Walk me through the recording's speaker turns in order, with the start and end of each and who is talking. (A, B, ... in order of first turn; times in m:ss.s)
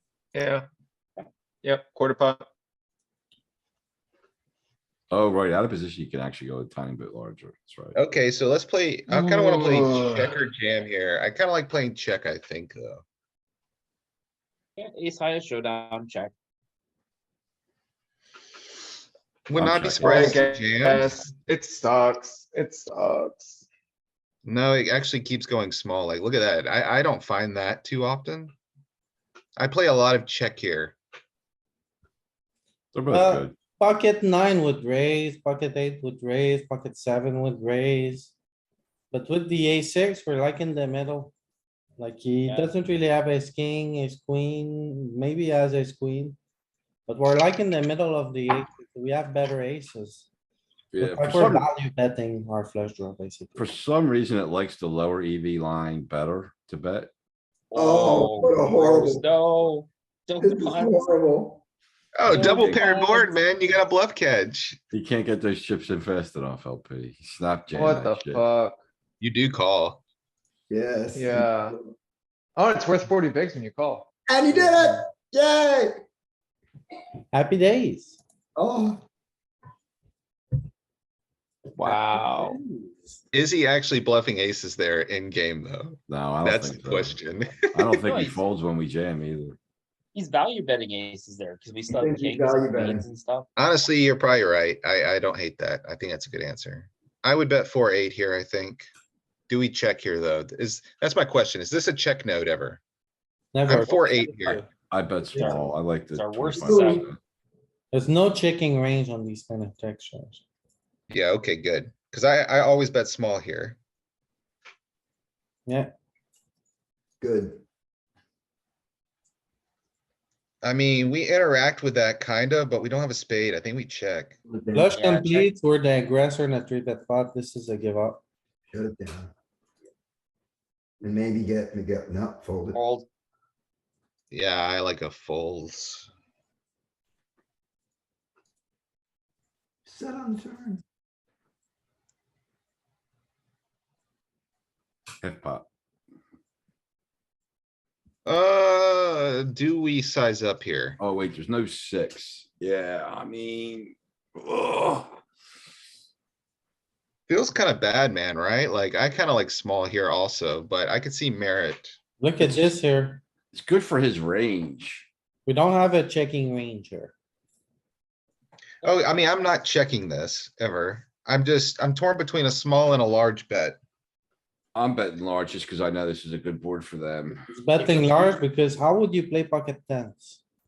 0:00.3-0:00.7 A
0:01.6-0:02.4 A
0:05.1-0:08.0 B
0:08.0-0:13.0 C
0:09.1-0:10.3 A
0:14.8-0:16.3 D
0:19.5-0:21.0 C
0:19.6-0:20.4 B
0:20.0-0:23.6 A
0:24.4-0:28.5 C
0:29.6-0:31.0 C
0:32.9-0:33.6 B
0:33.1-0:38.3 E
0:39.1-0:41.3 E
0:42.0-0:46.4 E
0:42.4-0:42.7 D
0:47.1-0:50.3 E
0:50.9-0:51.7 B
0:51.0-0:53.7 E
0:53.6-0:57.1 B
0:57.7-1:01.2 D
0:57.7-0:59.2 F
1:00.4-1:01.6 F
1:02.2-1:04.8 C
1:02.3-1:02.8 B
1:02.3-1:03.3 D
1:04.9-1:08.5 B
1:07.7-1:08.8 A
1:09.2-1:10.0 C
1:10.7-1:11.9 F
1:11.2-1:11.8 A
1:12.6-1:14.1 A
1:14.3-1:16.0 F
1:17.3-1:18.2 E
1:18.6-1:19.0 F
1:21.8-1:22.6 D
1:23.3-1:27.9 C
1:26.1-1:27.2 B
1:27.7-1:29.6 B
1:28.0-1:28.4 D
1:30.1-1:33.5 D
1:31.9-1:33.1 F
1:33.6-1:38.9 C
1:39.5-1:42.8 C
1:43.5-1:44.6 E
1:43.7-1:44.6 C
1:44.9-1:47.2 B
1:45.4-1:47.1 D
1:46.6-1:47.0 F
1:47.9-1:50.4 E
1:51.1-1:53.8 C
1:55.7-1:55.9 E
1:57.2-1:57.6 F
2:00.6-2:04.4 C
2:04.5-2:04.9 F
2:04.7-2:08.2 E
2:04.9-2:05.5 D
2:08.7-2:09.3 F
2:11.0-2:12.8 F
2:12.7-2:13.1 D
2:14.3-2:16.1 C
2:19.9-2:20.8 F
2:25.2-2:25.6 B
2:28.3-2:31.0 C
2:31.0-2:35.2 B
2:37.3-2:42.0 C
2:42.2-2:43.2 E
2:43.5-2:45.1 B
2:45.5-2:47.1 E
2:48.8-2:53.8 C
2:54.8-2:57.4 B
2:57.5-3:00.4 E
2:57.7-2:58.4 D